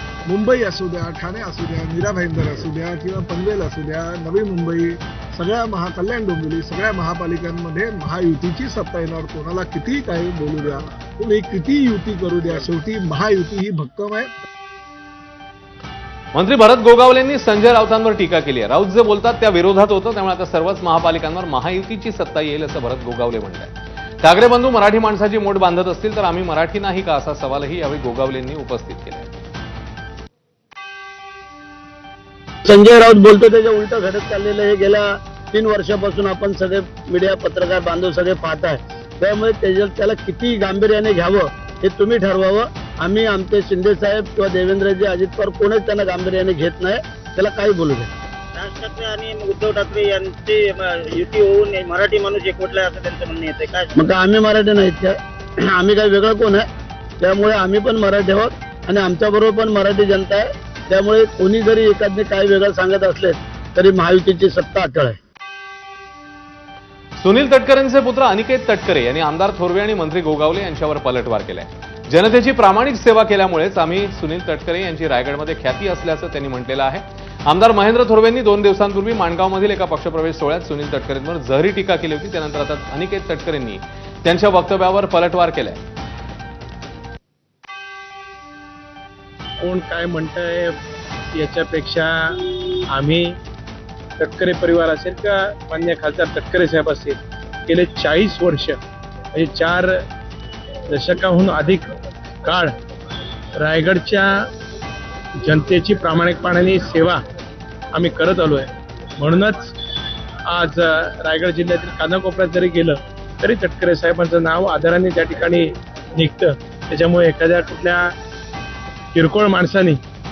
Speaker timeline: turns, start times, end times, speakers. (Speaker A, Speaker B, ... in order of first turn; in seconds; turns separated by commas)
Speaker A: 0.2-14.3, Speaker B: 16.3-29.3, Speaker C: 32.6-48.1, Speaker D: 48.5-53.9, Speaker C: 53.9-55.1, Speaker C: 55.7-56.6, Speaker C: 57.2-65.2, Speaker B: 67.2-85.8, Speaker E: 89.6-90.7, Speaker E: 91.3-93.3, Speaker E: 94.2-98.8, Speaker E: 99.3-99.9, Speaker E: 100.9-101.9, Speaker E: 102.4-102.7, Speaker E: 103.6-104.3, Speaker E: 105.4-107.2, Speaker E: 107.9-109.7, Speaker E: 110.5-115.7, Speaker E: 116.2-118.1, Speaker E: 119.1-120.0